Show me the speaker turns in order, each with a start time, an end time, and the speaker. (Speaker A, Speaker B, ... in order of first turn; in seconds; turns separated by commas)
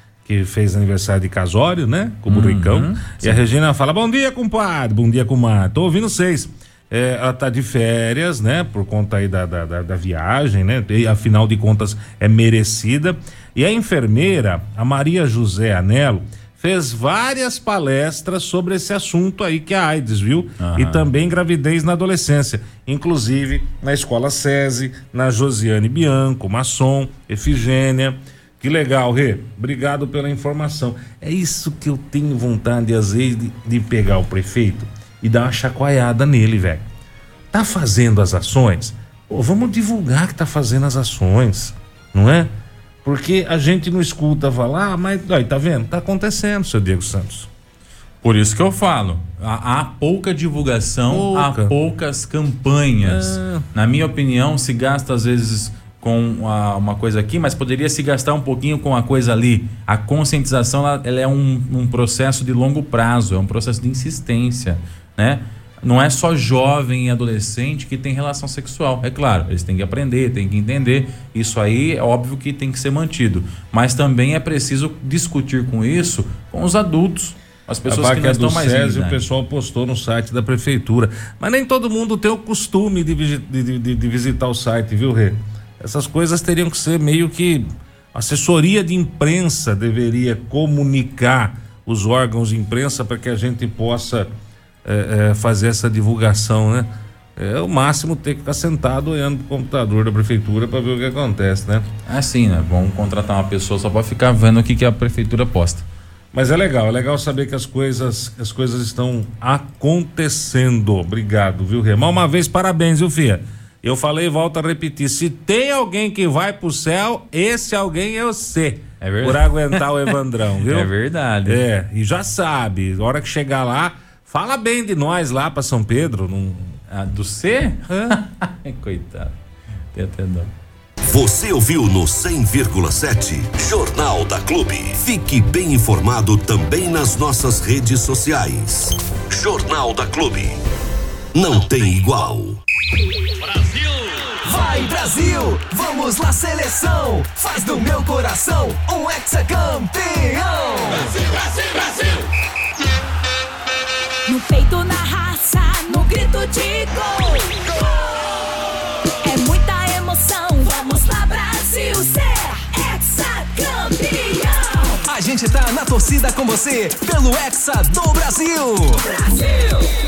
Speaker A: 0.2-36.9, Speaker B: 2.3-3.4, Speaker B: 20.6-21.1, Speaker A: 37.5-42.5, Speaker A: 43.0-47.5, Speaker B: 48.2-79.2, Speaker A: 51.1-51.8, Speaker A: 53.0-53.7, Speaker A: 77.8-94.3, Speaker A: 94.8-101.9, Speaker B: 102.1-105.8, Speaker A: 106.3-120.9, Speaker B: 119.0-120.1, Speaker B: 120.7-121.6, Speaker A: 121.5-126.8, Speaker B: 126.9-129.3, Speaker A: 127.9-128.2, Speaker B: 129.9-130.5, Speaker C: 131.1-140.6, Speaker C: 141.3-142.6, Speaker D: 144.4-151.0, Speaker E: 151.6-151.9, Speaker E: 154.2-158.3, Speaker E: 159.2-165.0, Speaker D: 165.0-169.0, Speaker E: 169.1-169.9